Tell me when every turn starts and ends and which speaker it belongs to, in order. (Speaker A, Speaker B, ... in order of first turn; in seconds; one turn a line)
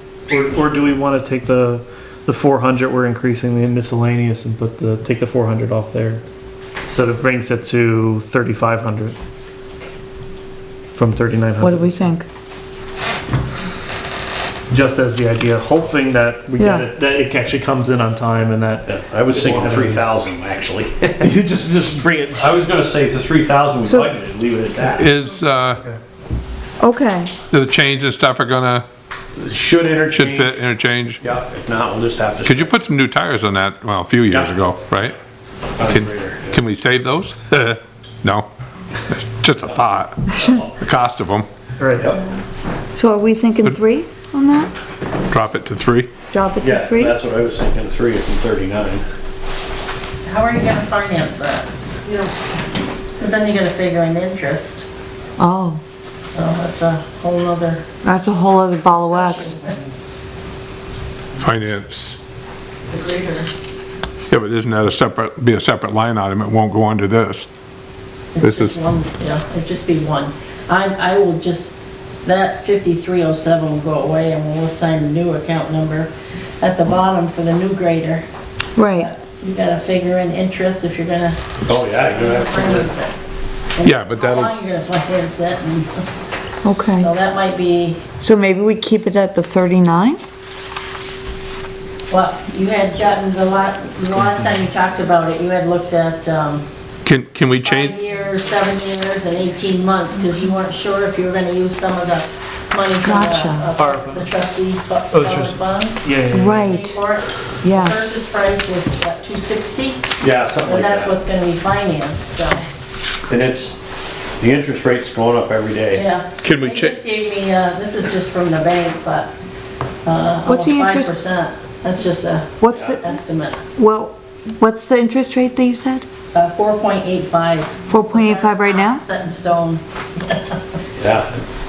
Speaker A: 0.3-6.2
Speaker A: 6.9-9.2
Speaker A: 10.9-12.0
Speaker B: 11.6-12.2
Speaker A: 14.7-20.1
Speaker B: 16.6-16.9
Speaker C: 18.9-21.3
Speaker A: 21.2-22.6
Speaker C: 22.4-25.1
Speaker D: 25.0-25.8
Speaker B: 26.8-27.3
Speaker D: 27.5-28.9
Speaker C: 29.4-30.6
Speaker D: 30.1-31.2
Speaker C: 31.2-32.7
Speaker D: 32.4-35.1
Speaker C: 34.3-34.6
Speaker C: 35.8-36.6
Speaker D: 35.9-38.5
Speaker D: 39.1-41.5
Speaker C: 40.3-40.7
Speaker A: 41.8-42.1
Speaker C: 42.0-42.2
Speaker B: 42.9-44.7
Speaker D: 45.3-46.1
Speaker B: 46.3-47.1
Speaker C: 46.6-49.0
Speaker E: 50.2-51.7
Speaker E: 53.2-54.8
Speaker B: 55.4-55.8
Speaker E: 56.3-57.8
Speaker B: 58.0-59.5
Speaker E: 58.8-59.8
Speaker D: 61.4-62.2
Speaker E: 62.9-63.2
Speaker D: 64.3-67.5
Speaker E: 68.3-78.2
Speaker D: 68.4-68.8
Speaker B: 78.8-79.1
Speaker E: 78.9-81.4
Speaker C: 81.7-82.9
Speaker E: 81.9-83.1
Speaker E: 83.7-85.9
Speaker D: 83.8-84.5
Speaker B: 86.7-87.1
Speaker E: 86.9-88.0
Speaker B: 88.2-90.2
Speaker E: 92.1-96.7
Speaker D: 97.0-98.0
Speaker E: 97.6-110.1
Speaker B: 103.0-103.7
Speaker A: 103.8-104.3
Speaker A: 105.1-106.7
Speaker B: 106.3-107.0
Speaker B: 107.6-108.1
Speaker C: 110.2-111.2
Speaker E: 110.6-112.6
Speaker C: 113.3-113.8
Speaker C: 114.4-116.0
Speaker E: 115.9-119.3
Speaker D: 116.4-117.0
Speaker E: 120.0-123.6
Speaker B: 120.5-121.1
Speaker B: 122.6-123.2
Speaker C: 122.7-123.0
Speaker B: 123.8-126.1
Speaker E: 126.3-130.6
Speaker B: 127.9-129.0
Speaker C: 131.0-131.3